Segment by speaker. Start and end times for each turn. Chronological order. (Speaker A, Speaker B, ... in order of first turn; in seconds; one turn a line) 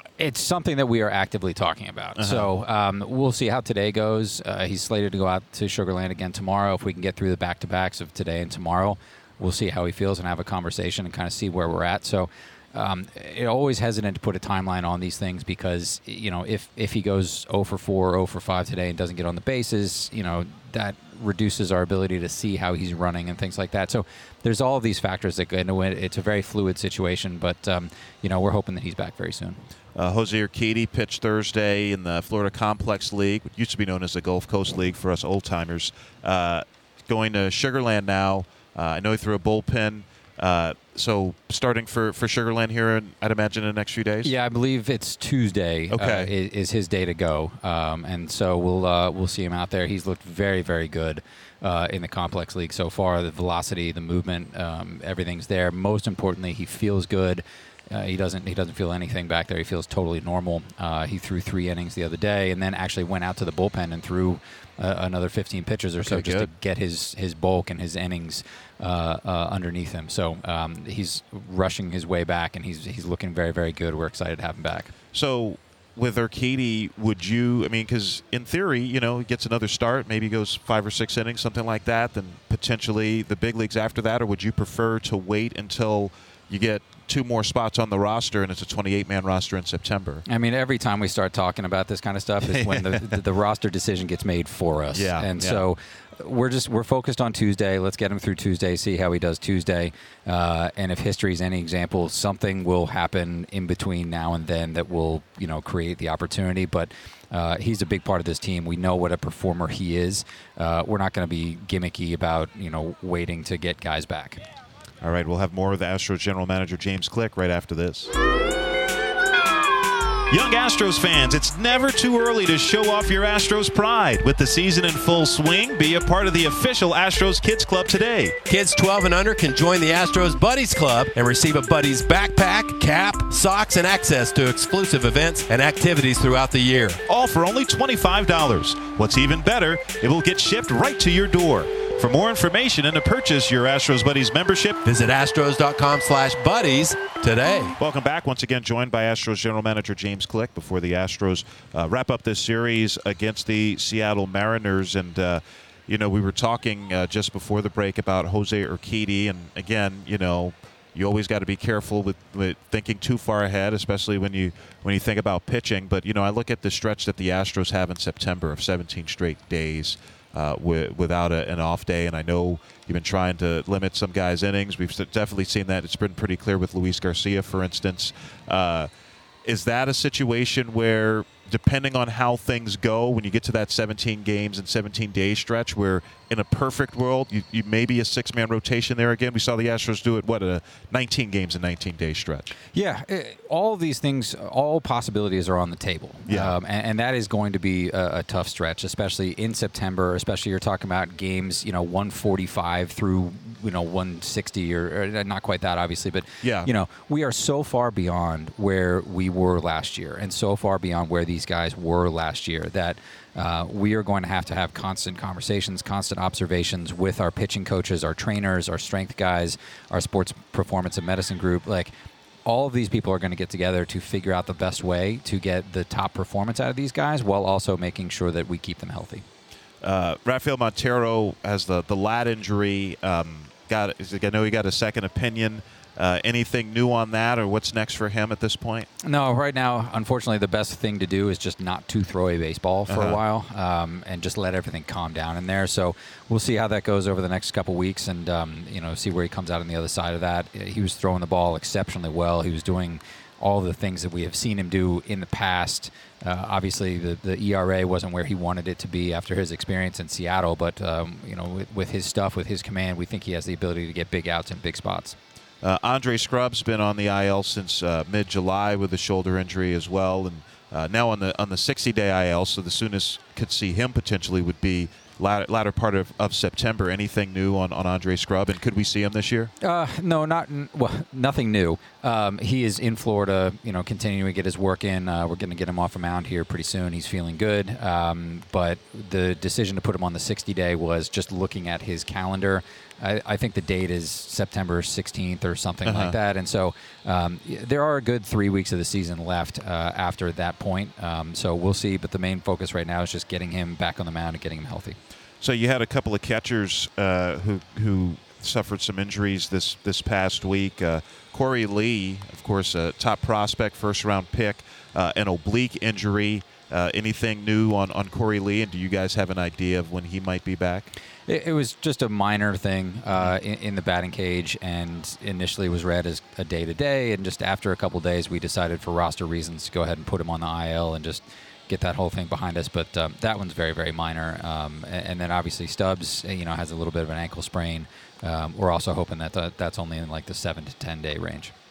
Speaker A: 0.2-29.6
Speaker B: 2.2-2.5
Speaker B: 29.9-44.3
Speaker A: 44.2-74.9
Speaker B: 45.9-46.3
Speaker B: 66.0-66.5
Speaker B: 75.1-90.2
Speaker A: 90.3-114.4
Speaker B: 92.4-93.2
Speaker B: 94.9-95.6
Speaker B: 115.0-118.1
Speaker B: 120.3-128.4
Speaker C: 128.5-137.0
Speaker B: 137.1-144.8
Speaker C: 144.8-147.8
Speaker B: 147.8-178.9
Speaker B: 179.4-192.5
Speaker A: 192.7-221.9
Speaker B: 196.3-196.6
Speaker B: 206.4-206.7
Speaker A: 222.4-229.2
Speaker B: 229.8-238.9
Speaker A: 239.0-265.2
Speaker B: 242.9-243.2
Speaker B: 265.6-279.5
Speaker A: 279.6-305.0
Speaker B: 295.9-296.2
Speaker B: 305.4-320.9
Speaker A: 321.3-341.5